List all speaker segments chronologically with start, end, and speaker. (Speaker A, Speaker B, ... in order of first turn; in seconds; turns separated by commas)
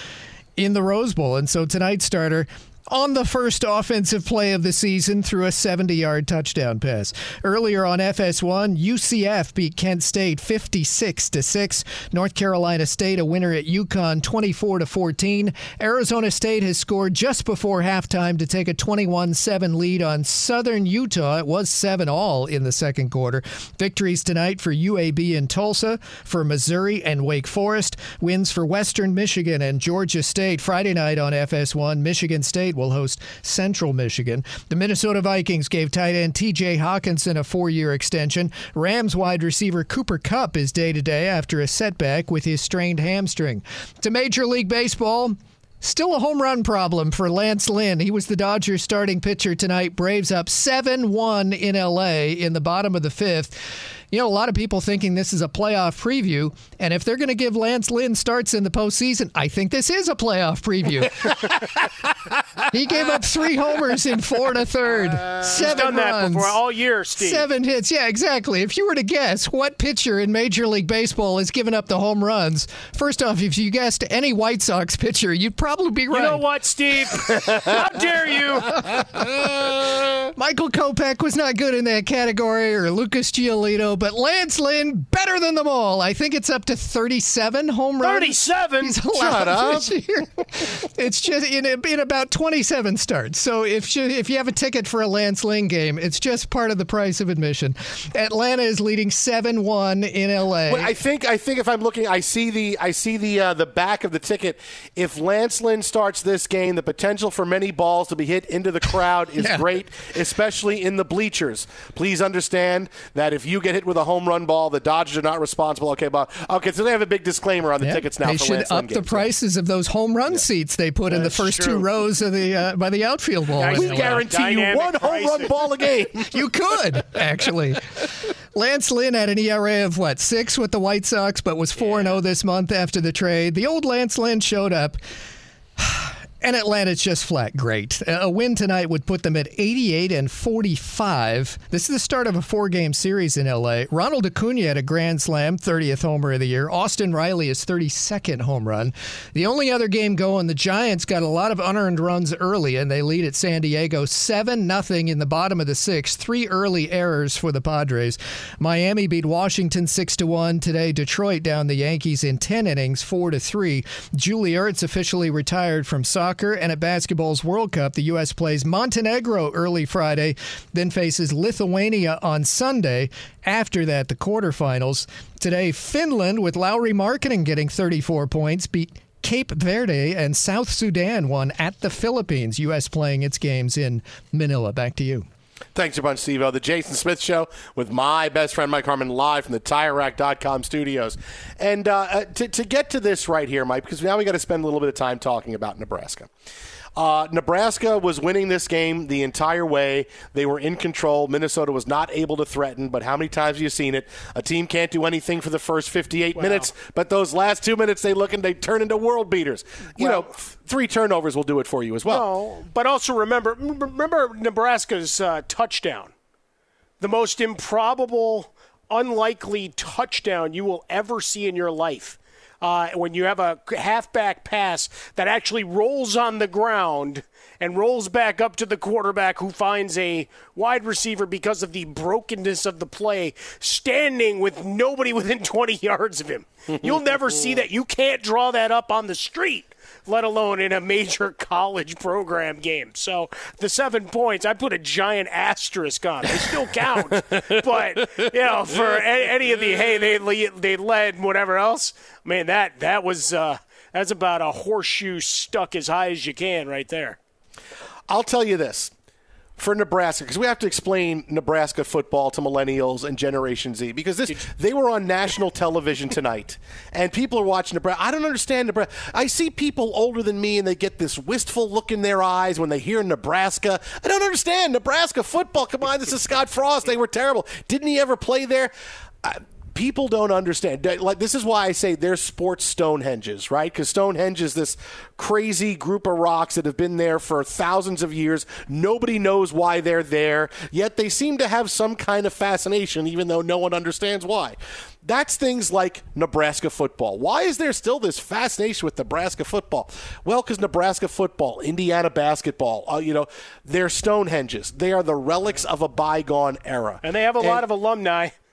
Speaker A: 0.6-61.6, Speaker A: 62.7-66.6, Speaker B: 65.4-67.5, Speaker A: 67.2-76.5, Speaker B: 76.1-78.8, Speaker A: 78.8-79.6, Speaker A: 80.4-100.9, Speaker B: 88.0-89.0, Speaker C: 89.2-90.0, Speaker C: 100.7-119.3, Speaker A: 109.4-109.7, Speaker A: 117.8-124.2, Speaker B: 121.1-121.9, Speaker B: 123.5-125.6, Speaker C: 123.7-126.4, Speaker A: 126.3-135.0, Speaker B: 131.8-132.2, Speaker A: 135.8-185.3, Speaker C: 185.8-196.3, Speaker C: 197.0-212.3, Speaker B: 206.3-206.7, Speaker B: 210.0-210.3, Speaker B: 212.1-216.1, Speaker B: 217.0-257.2, Speaker C: 258.1-258.9, Speaker C: 259.6-307.6, Speaker B: 307.0-308.3